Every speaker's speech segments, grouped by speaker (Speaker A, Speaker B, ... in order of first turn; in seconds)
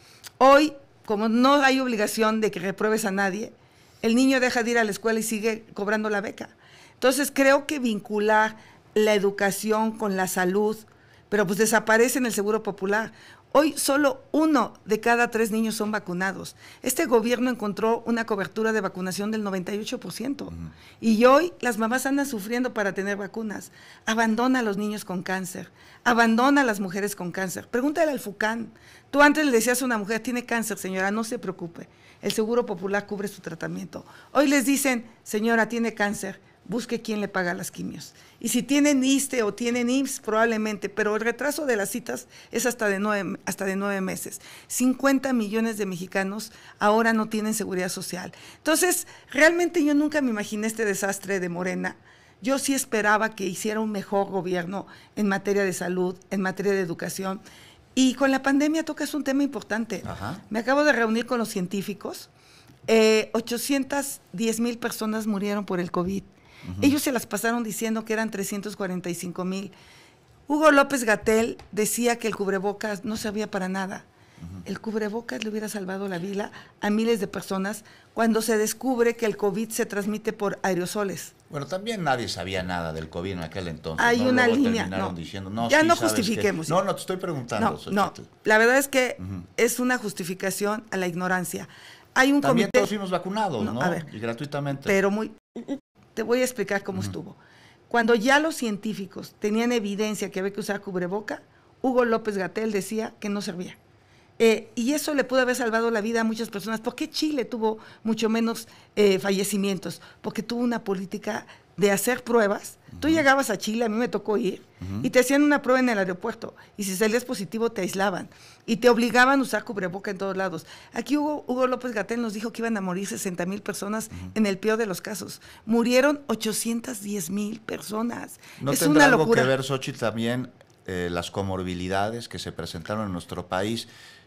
Speaker A: 0.4-57.4, 58.0-62.3, 62.9-69.7, 70.5-74.0, 74.6-81.3, 84.0-85.1, 85.6-86.8, 87.6-92.9, 93.6-94.0, 94.8-97.4, 97.9-103.8, 104.4-129.5
Speaker B: 60.0-60.4, 66.6-67.0, 81.5-88.3, 89.2-89.5, 92.4-95.0, 112.9-113.2, 114.8-115.1, 128.6-133.9